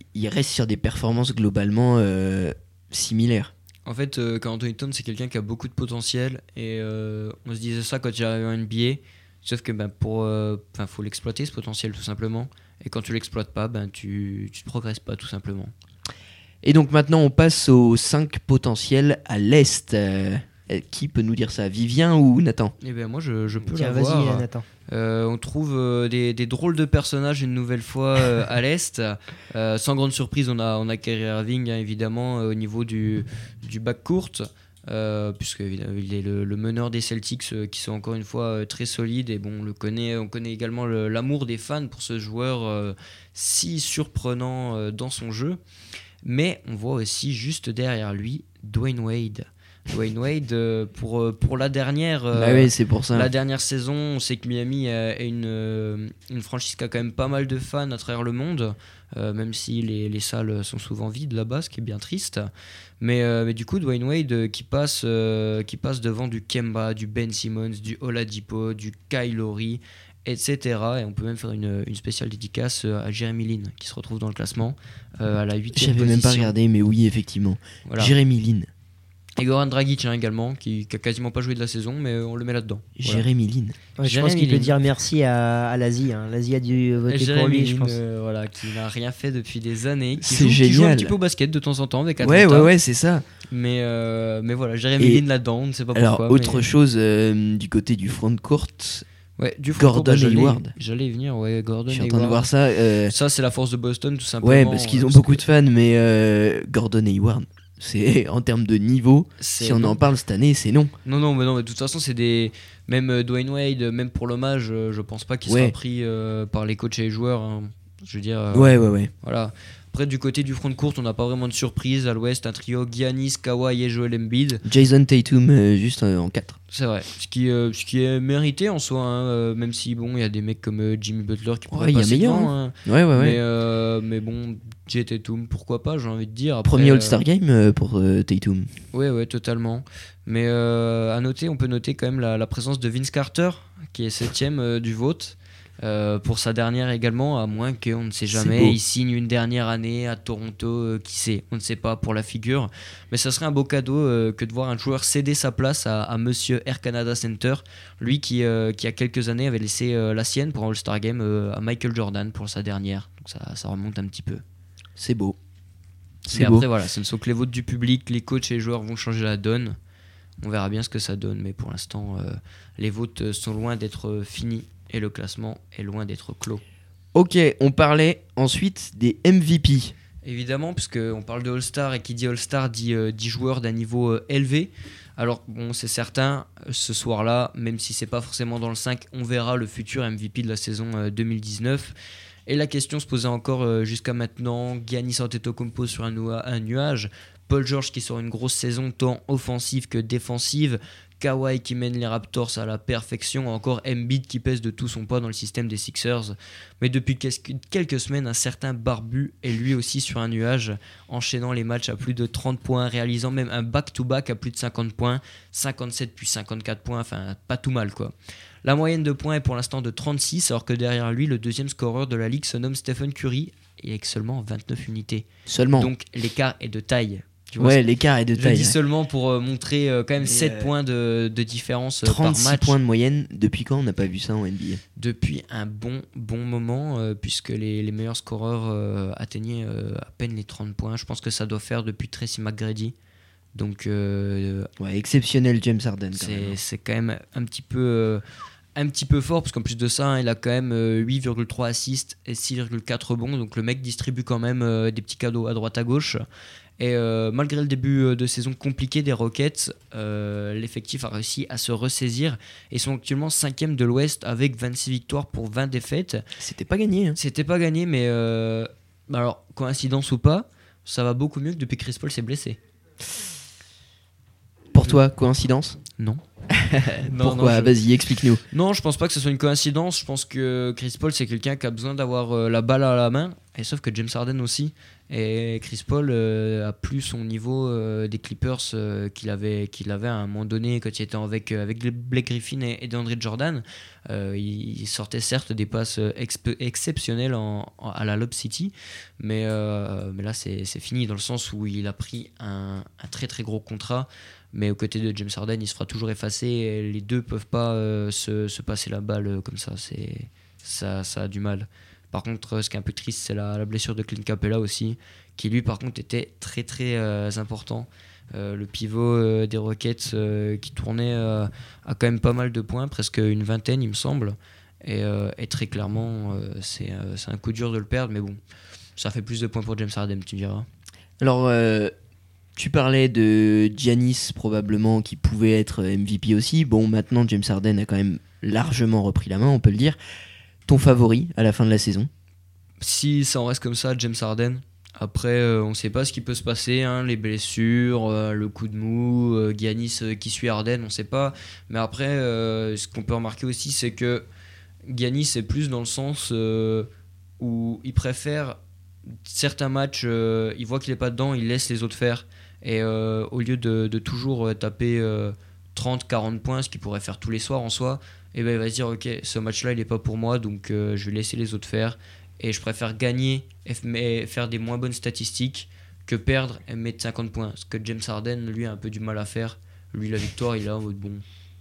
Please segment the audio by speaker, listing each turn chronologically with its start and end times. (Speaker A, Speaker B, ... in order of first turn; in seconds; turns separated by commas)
Speaker A: 0.1-3.5, Speaker B: 3.8-15.7, Speaker A: 16.6-22.7, Speaker B: 22.8-45.6, Speaker C: 23.7-24.6, Speaker B: 46.2-62.5, Speaker A: 52.3-53.3, Speaker B: 63.0-76.5, Speaker A: 75.8-78.7, Speaker B: 77.8-78.1, Speaker B: 79.4-83.2, Speaker A: 83.0-83.8, Speaker B: 84.0-84.7, Speaker C: 84.0-88.0, Speaker B: 87.1-92.7, Speaker A: 90.2-91.1, Speaker A: 92.2-93.2, Speaker B: 93.5-96.6, Speaker A: 95.9-99.0, Speaker B: 99.4-102.4, Speaker A: 99.8-100.7, Speaker A: 101.9-103.1, Speaker B: 103.1-105.4, Speaker A: 104.4-110.9, Speaker B: 109.4-110.0, Speaker B: 111.0-124.6, Speaker A: 115.5-115.7, Speaker A: 118.5-119.1, Speaker A: 124.7-126.6, Speaker B: 126.7-137.2, Speaker A: 131.7-133.4, Speaker A: 136.7-138.7, Speaker B: 138.9-164.4, Speaker A: 148.3-148.8, Speaker A: 165.0-165.3, Speaker A: 166.2-166.7, Speaker B: 166.3-169.8, Speaker B: 170.4-176.6, Speaker A: 177.1-179.9, Speaker B: 180.2-191.9, Speaker B: 192.5-227.8, Speaker A: 225.5-225.9, Speaker A: 227.6-228.7, Speaker B: 228.3-232.8, Speaker A: 230.2-230.7, Speaker A: 232.0-234.8, Speaker B: 235.0-242.9, Speaker B: 243.5-244.7, Speaker A: 244.8-246.6, Speaker B: 246.1-248.2, Speaker B: 248.8-256.2, Speaker B: 256.8-266.2, Speaker A: 266.4-267.2, Speaker B: 267.2-272.6, Speaker A: 274.7-275.8, Speaker A: 276.6-278.4, Speaker B: 277.0-277.7, Speaker B: 278.5-328.4, Speaker B: 329.0-330.7, Speaker A: 331.2-331.9, Speaker A: 332.6-340.0, Speaker A: 340.7-342.1, Speaker B: 342.8-354.2, Speaker B: 354.9-356.9, Speaker B: 357.4-358.6, Speaker B: 359.2-381.2